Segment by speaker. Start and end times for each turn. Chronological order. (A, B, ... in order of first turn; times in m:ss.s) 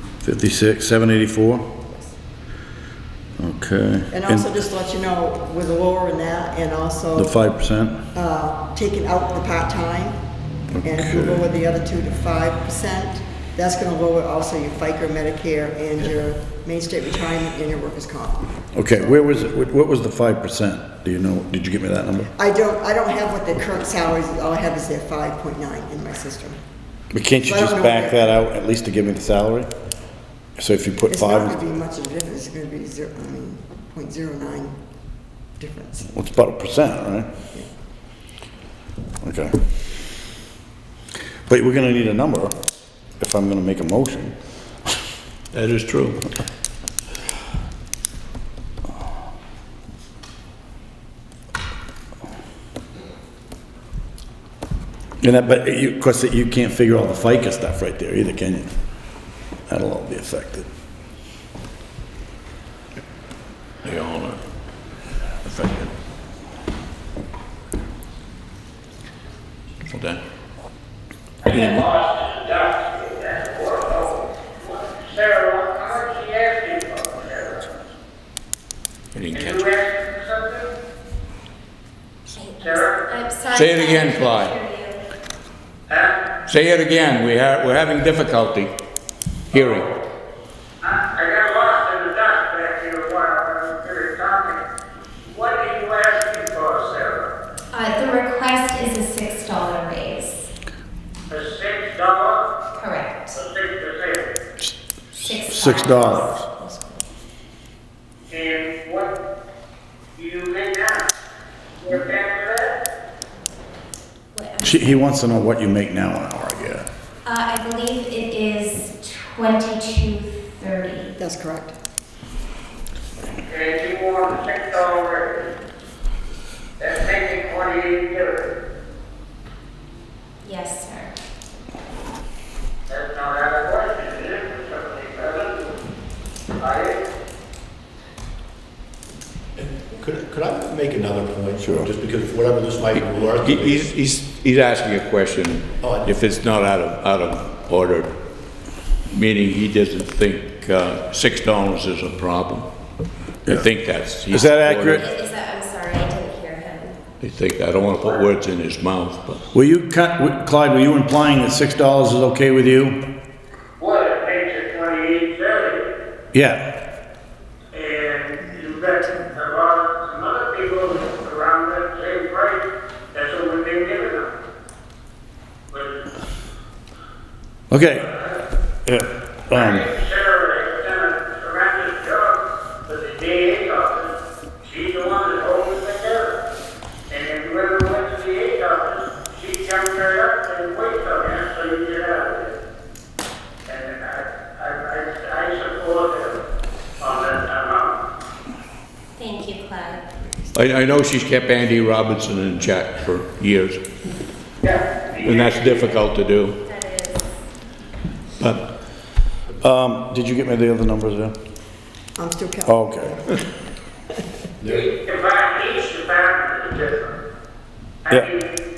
0:00.2-0:01.9 A
0:03.4-0:04.7 A
0:04.1-0:07.3 B
0:07.1-0:08.1 A
0:08.1-0:10.2 B
0:10.7-0:11.4 A
0:10.8-0:19.2 B
0:18.7-0:22.3 A
0:22.4-0:26.6 B
0:27.1-0:29.7 A
0:27.4-0:28.3 B
0:30.6-0:31.6 A
0:31.1-0:34.8 B
0:35.6-0:36.1 B
0:36.1-0:37.3 A
0:39.2-0:39.6 A
0:41.4-0:42.6 A
0:43.2-0:44.4 A
0:45.5-0:46.3 C
0:55.2-0:58.8 A
0:59.7-1:00.7 A
1:03.8-1:04.4 C
1:05.4-1:05.9 C
1:09.8-1:10.2 C
1:11.4-1:17.7 D
1:11.5-1:11.8 C
1:19.1-1:19.6 C
1:19.3-1:20.7 D
1:22.3-1:25.0 E
1:22.6-1:23.1 D
1:23.5-1:24.5 C
1:25.9-1:26.2 D
1:26.5-1:28.7 C
1:29.5-1:30.0 D
1:29.5-1:29.9 C
1:30.8-1:34.6 D
1:35.2-1:37.3 D
1:37.7-1:40.5 E
1:41.3-1:42.5 D
1:42.8-1:43.4 E
1:43.3-1:44.3 D
1:45.1-1:47.0 E
1:45.4-1:46.4 A
1:48.3-1:49.1 D
1:50.2-1:51.1 D
1:51.8-1:52.8 D
1:54.3-1:55.2 E
1:54.6-1:56.9 A
1:57.2-2:01.1 E
2:01.2-2:01.7 B
2:03.4-2:05.5 D
2:06.8-2:08.5 D
2:10.4-2:11.1 E
2:12.9-2:15.8 D
2:16.6-2:17.0 D
2:19.6-2:23.9 F
2:21.6-2:21.9 A
2:23.4-2:28.2 C
2:25.8-2:26.2 F
2:29.1-2:32.7 C
2:33.4-2:35.1 C
2:34.3-2:35.0 A
2:34.9-2:37.0 E
2:37.2-2:39.4 C
2:39.5-2:43.0 A
2:43.8-2:45.9 D
2:46.3-2:46.7 A
2:47.7-2:54.3 D
2:55.7-2:56.0 D
2:57.7-2:58.1 A
2:57.9-2:58.4 D
2:58.8-2:59.8 A
2:59.5-3:06.4 D
3:07.1-3:12.6 D
3:13.7-3:16.4 D
3:17.0-3:18.0 D
3:19.2-3:20.0 E
3:20.5-3:23.8 C
3:24.6-3:25.9 D
3:25.2-3:26.6 C
3:26.6-3:27.3 E
3:28.4-3:28.7 C
3:29.6-3:31.4 A
3:32.2-3:33.4 B
3:32.7-3:33.2 A
3:34.6-3:34.9 F
3:34.7-3:37.2 D
3:38.0-3:38.6 D